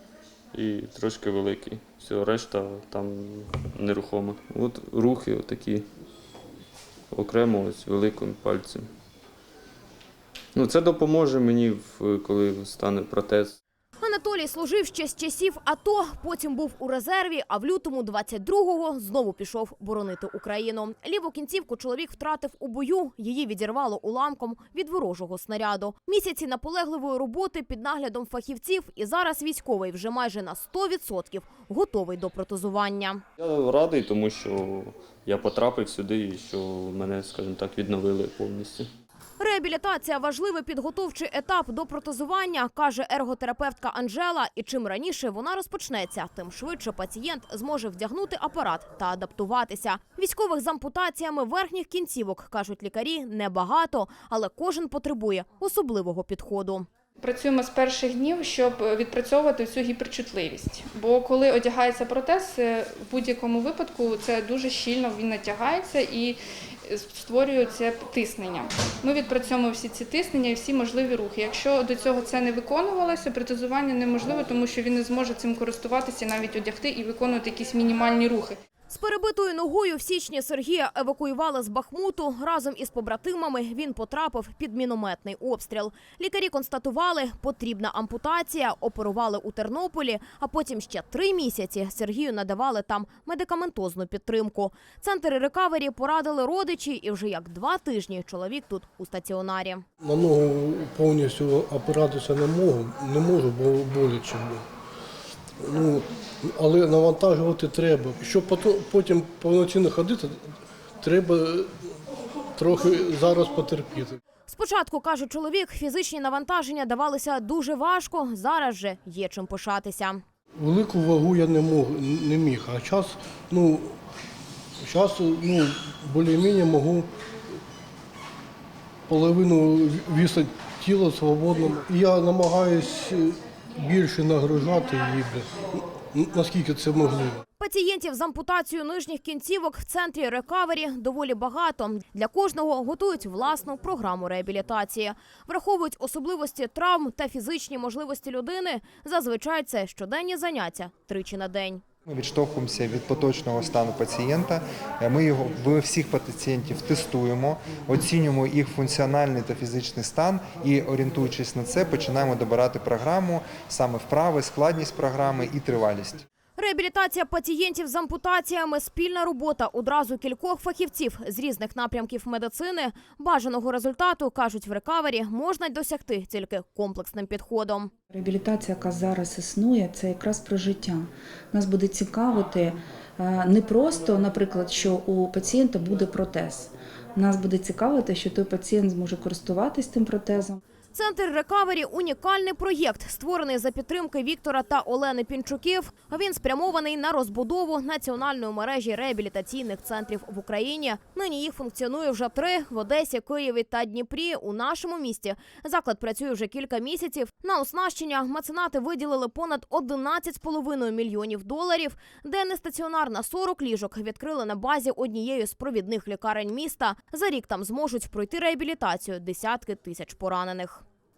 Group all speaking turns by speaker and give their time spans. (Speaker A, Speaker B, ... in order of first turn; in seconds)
Speaker A: 0.5-5.9, 7.1-8.9, 10.5-13.6, 33.4-38.9
Speaker B: 14.0-33.2, 39.4-56.9, 78.9-99.8, 114.5-120.2, 137.6-151.8, 166.6-177.9, 190.9-220.8
Speaker C: 57.2-78.6
Speaker D: 100.0-104.6, 105.6-110.4, 111.0-111.7, 112.6-114.2, 120.6-124.0, 124.8-127.1, 129.1-137.4
Speaker E: 152.1-166.2
Speaker F: 178.1-190.6